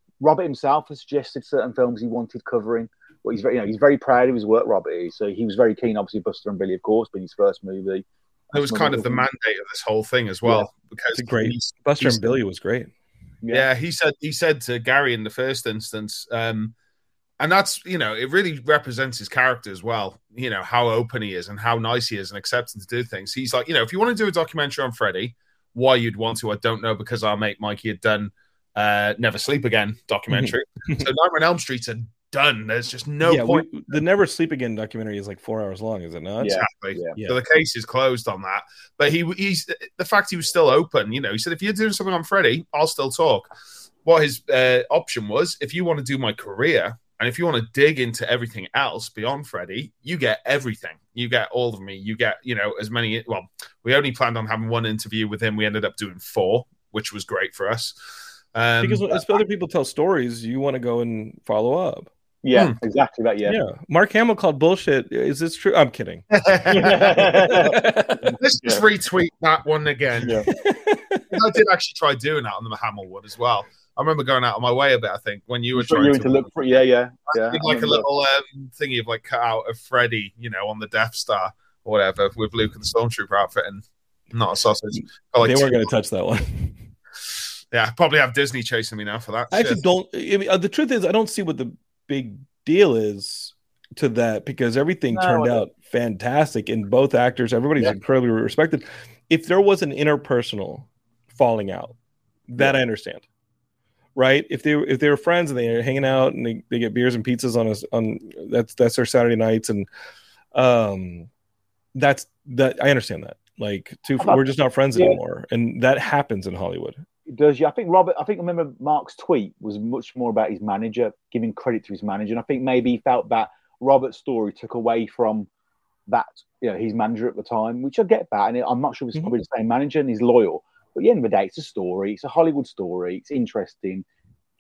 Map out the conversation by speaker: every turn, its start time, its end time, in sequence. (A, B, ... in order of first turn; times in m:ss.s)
0:00.2-0:09.2 A
0:08.5-0:12.2 B
0:11.2-0:12.9 C
0:13.4-0:13.7 A
0:13.5-0:16.7 B
0:17.4-0:33.9 B
0:30.3-0:31.1 C
0:33.2-0:36.6 C
0:36.4-0:37.1 A
0:36.5-0:43.5 B
0:44.0-0:57.9 B
0:58.5-0:59.2 B
0:58.8-1:02.1 C
1:02.4-1:03.6 A
1:03.5-1:06.2 C
1:06.3-1:07.7 B
1:06.7-1:08.8 A
1:06.8-1:08.4 C
1:08.4-1:10.5 B
1:10.2-1:10.5 A
1:10.5-1:11.2 C
1:11.3-1:16.5 B
1:15.8-1:18.0 A
1:17.3-1:25.9 B
1:25.4-1:26.8 C
1:27.7-1:29.8 B
1:29.5-1:42.0 C
1:35.1-1:35.6 A
1:42.5-1:43.2 C
1:44.2-1:49.9 C
1:50.5-1:51.3 C
1:52.0-1:57.0 C
1:54.2-1:55.2 A
1:57.3-2:05.5 A
2:06.1-2:14.0 A